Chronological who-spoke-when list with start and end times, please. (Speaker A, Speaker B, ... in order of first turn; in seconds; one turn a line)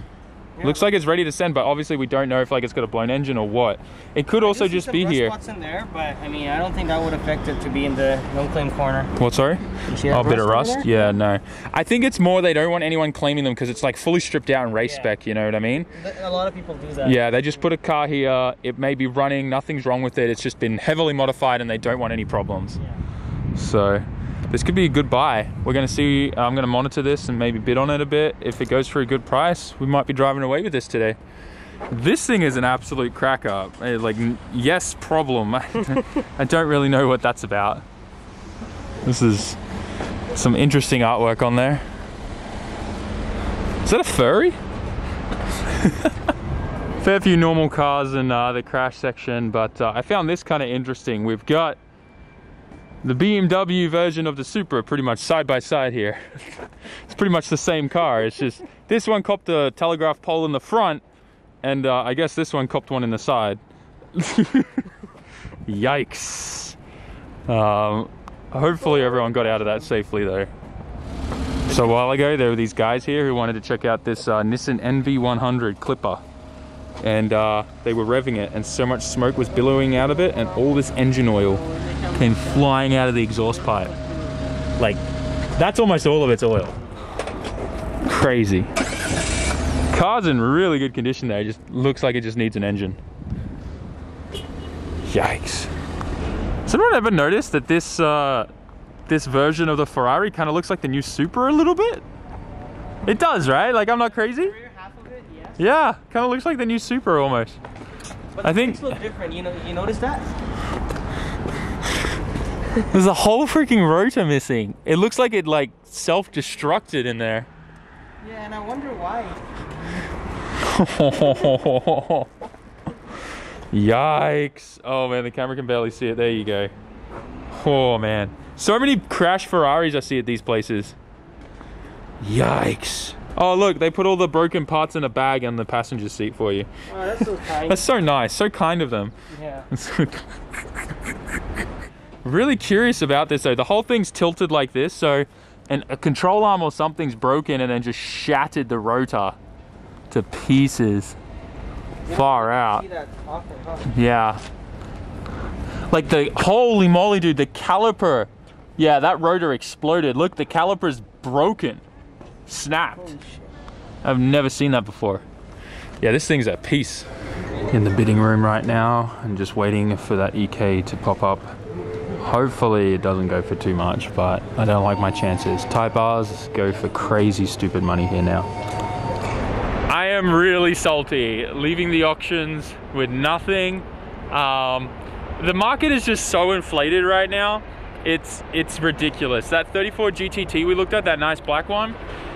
Speaker A: 0.6-0.9
Speaker B: 0.6-5.3
Speaker A: 4.3-9.1
Speaker B: 9.2-15.9
Speaker A: 9.9-11.2
Speaker A: 14.8-15.1
Speaker A: 15.9-17.2
Speaker B: 17.0-22.8
Speaker B: 23.5-31.2
Speaker B: 31.9-37.8
Speaker B: 39.0-39.6
Speaker B: 40.3-41.8
Speaker B: 43.8-44.6
Speaker B: 45.6-46.1
Speaker B: 47.0-51.8
Speaker B: 53.0-61.0
Speaker B: 61.6-63.6
Speaker B: 64.1-64.9
Speaker B: 65.7-66.8
Speaker B: 67.5-70.5
Speaker A: 68.8-69.9
Speaker B: 71.7-76.2
Speaker B: 77.0-81.6
Speaker A: 79.5-82.7
Speaker B: 82.1-83.9
Speaker A: 83.4-84.7
Speaker B: 85.5-86.8
Speaker B: 88.0-88.7
Speaker B: 89.9-93.0
Speaker B: 95.1-95.7
Speaker B: 96.7-98.5
Speaker B: 99.1-102.0
Speaker B: 103.0-104.5
Speaker A: 103.7-105.7
Speaker B: 105.6-107.6
Speaker A: 108.3-110.3
Speaker B: 108.4-109.0
Speaker B: 112.8-117.5
Speaker A: 118.2-119.4
Speaker B: 120.6-122.3
Speaker B: 123.7-126.7
Speaker B: 127.5-130.9
Speaker B: 132.2-136.7
Speaker A: 136.9-137.8
Speaker B: 137.6-139.1
Speaker A: 139.3-139.7
Speaker B: 139.7-140.9
Speaker B: 142.2-149.4
Speaker B: 150.1-151.2
Speaker A: 152.1-153.9
Speaker B: 152.1-152.8
Speaker B: 153.9-154.4
Speaker B: 155.9-161.8
Speaker B: 162.5-163.1
Speaker A: 163.0-163.5
Speaker B: 164.0-165.2
Speaker B: 166.0-167.1
Speaker B: 167.7-171.5
Speaker B: 172.2-178.5
Speaker B: 179.9-191.9